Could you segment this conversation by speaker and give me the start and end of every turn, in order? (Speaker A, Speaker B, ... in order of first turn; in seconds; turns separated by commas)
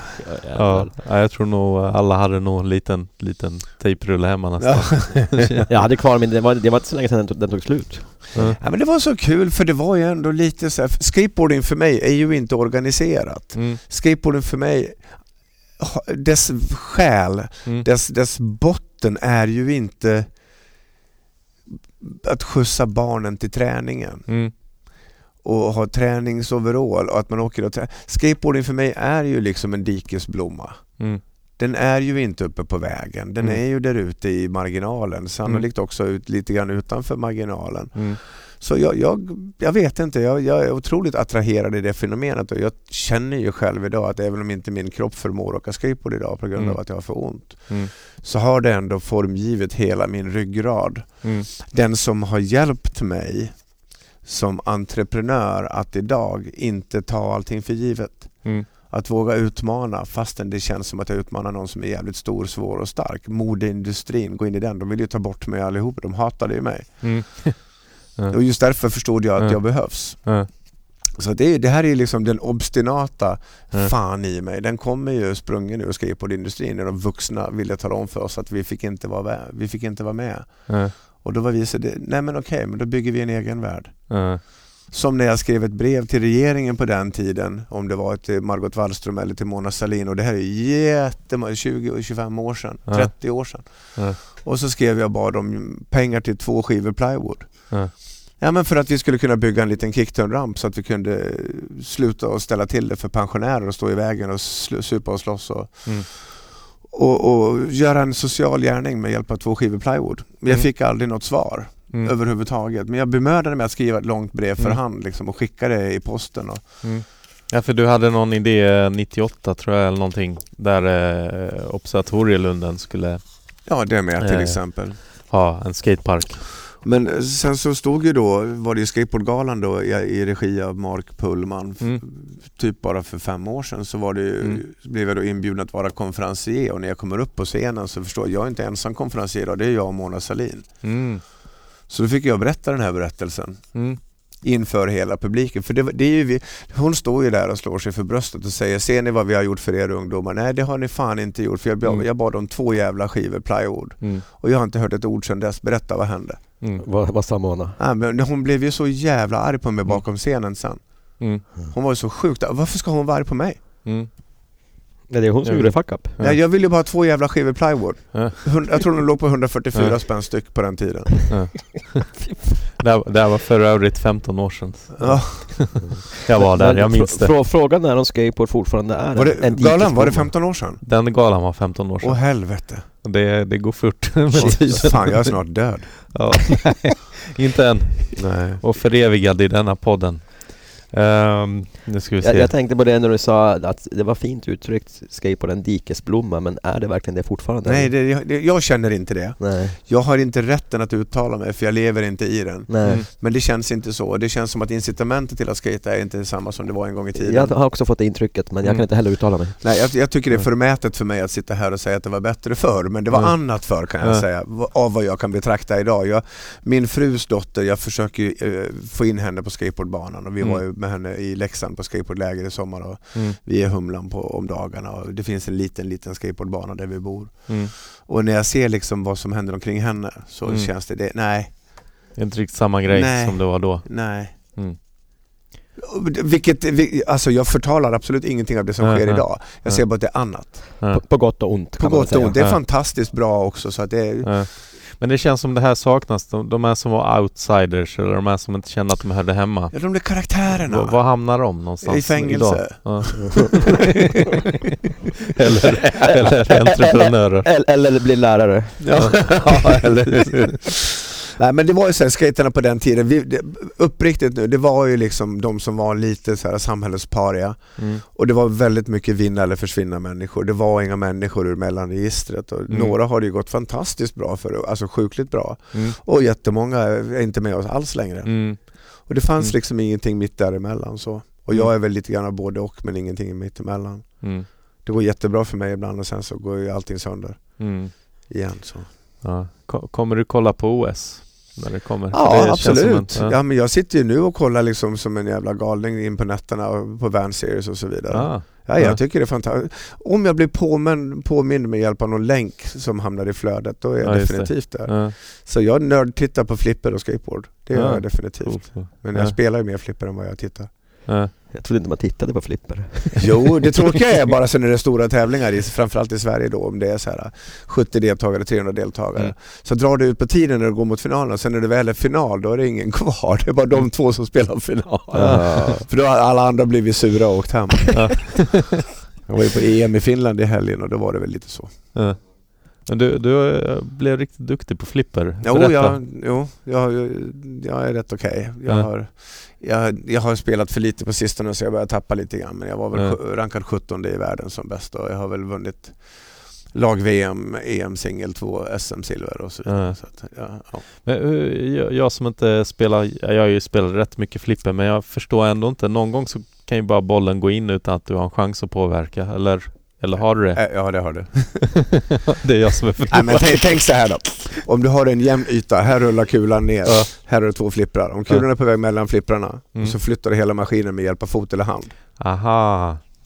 Speaker A: 0.2-1.0, Speaker B: 0.5-5.7, Speaker C: 4.6-5.4, Speaker A: 5.7-8.6, Speaker B: 8.3-8.6, Speaker C: 8.4-20.4, Speaker B: 13.5-13.8, Speaker C: 22.0-24.6, Speaker B: 24.3-24.5, Speaker C: 25.4-67.6, Speaker B: 37.9-38.2, Speaker B: 46.5-47.9, Speaker B: 51.2-51.5, Speaker B: 67.0-70.5, Speaker C: 68.3-116.9, Speaker B: 80.7-80.9, Speaker B: 84.1-84.4, Speaker B: 92.9-94.2, Speaker B: 116.8-126.4, Speaker C: 123.6-125.0, Speaker C: 126.7-140.9, Speaker B: 140.8-141.2, Speaker C: 141.9-156.6, Speaker B: 143.7-144.0, Speaker B: 156.6-156.8, Speaker A: 156.8-157.8, Speaker C: 157.8-163.6, Speaker B: 161.2-161.4, Speaker B: 163.8-164.1, Speaker A: 165.1-166.2, Speaker B: 165.4-166.4, Speaker C: 166.2-171.5, Speaker B: 171.3-172.1, Speaker A: 172.2-172.6, Speaker B: 172.8-177.4, Speaker C: 175.0-175.8, Speaker A: 175.1-180.3, Speaker C: 179.1-180.8, Speaker B: 180.8-192.5, Speaker C: 182.0-182.9, Speaker C: 184.3-186.4, Speaker A: 184.3-185.2, Speaker C: 188.2-188.6, Speaker A: 192.2-197.9, Speaker C: 197.6-207.6, Speaker A: 199.4-199.8, Speaker A: 202.7-203.0, Speaker A: 207.1-209.8, Speaker C: 209.6-231.9, Speaker B: 213.1-214.2, Speaker B: 223.1-223.4, Speaker B: 230.4-230.7, Speaker B: 232.1-234.8, Speaker C: 232.9-234.5, Speaker C: 235.8-240.8, Speaker B: 238.8-241.0, Speaker A: 240.8-242.5, Speaker C: 241.8-244.5, Speaker B: 244.2-253.8, Speaker C: 249.7-253.8, Speaker A: 253.2-253.7, Speaker B: 255.3-257.5, Speaker A: 256.3-259.8, Speaker C: 258.8-288.9, Speaker B: 258.9-260.6, Speaker B: 267.8-268.0, Speaker B: 272.7-272.9, Speaker B: 275.7-276.0, Speaker B: 278.2-279.6, Speaker B: 284.2-284.5, Speaker B: 287.6-288.3, Speaker B: 289.2-293.4, Speaker C: 292.1-310.7, Speaker B: 298.1-299.0, Speaker B: 304.0-305.1, Speaker B: 307.7-309.4, Speaker B: 311.1-311.3, Speaker A: 311.5-313.5, Speaker C: 313.2-328.5, Speaker A: 325.1-325.9, Speaker B: 325.1-325.8, Speaker B: 327.9-328.8, Speaker C: 329.2-331.9, Speaker B: 331.9-336.0, Speaker C: 335.4-350.9, Speaker B: 342.9-343.2, Speaker B: 349.6-361.6, Speaker C: 360.1-362.0, Speaker B: 362.3-364.0, Speaker C: 363.1-372.0, Speaker B: 366.8-367.5, Speaker B: 372.2-373.0